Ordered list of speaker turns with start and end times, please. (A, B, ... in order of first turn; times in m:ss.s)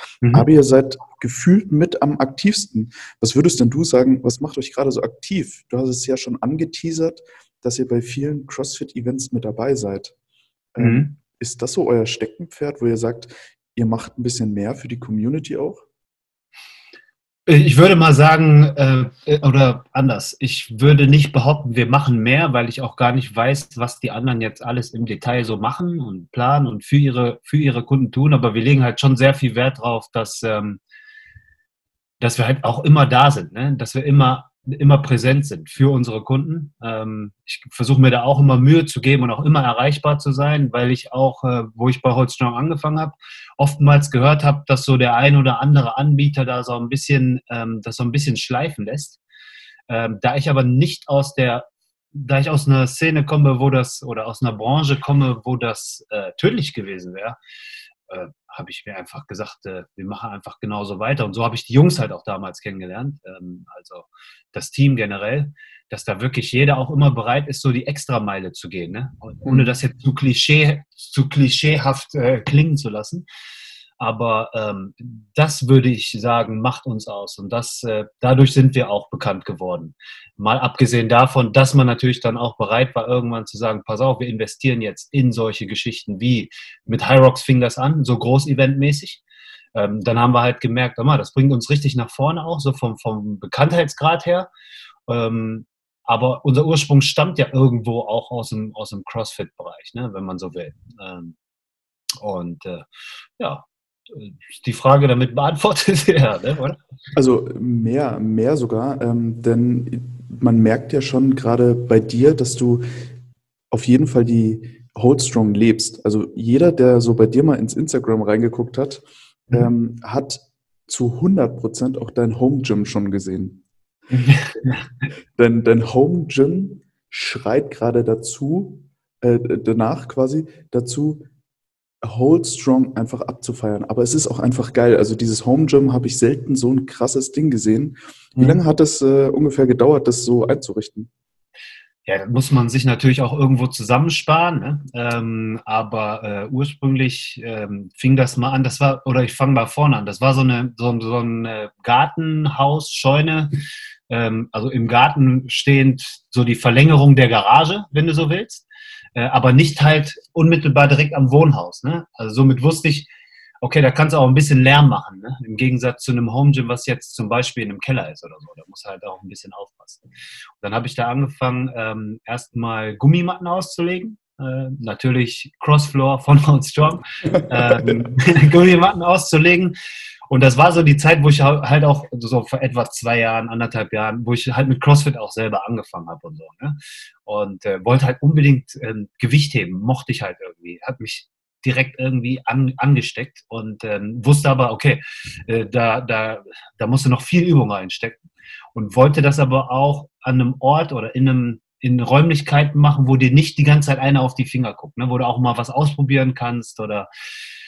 0:00.3-0:10.1 A
0:10.7-0:15.8 A
0:10.8-0:11.1 B
0:17.5-0:30.8 B
0:32.2-0:49.2 B
0:49.9-0:57.4 B
0:58.1-1:13.2 B
1:14.0-1:29.2 B
1:29.7-1:34.5 B
1:35.1-1:41.4 B
1:42.2-1:42.9 B
1:43.4-1:46.8 B
1:47.1-1:52.9 A
1:53.7-2:03.6 A
2:04.1-2:04.8 B
2:05.4-2:11.2 A
2:12.0-2:21.1 A
2:22.0-2:33.6 B
2:34.1-2:43.1 B
2:43.6-2:50.0 B
2:50.6-2:59.7 B
2:57.4-2:58.0 A
3:00.3-3:18.2 B
3:18.7-3:27.1 B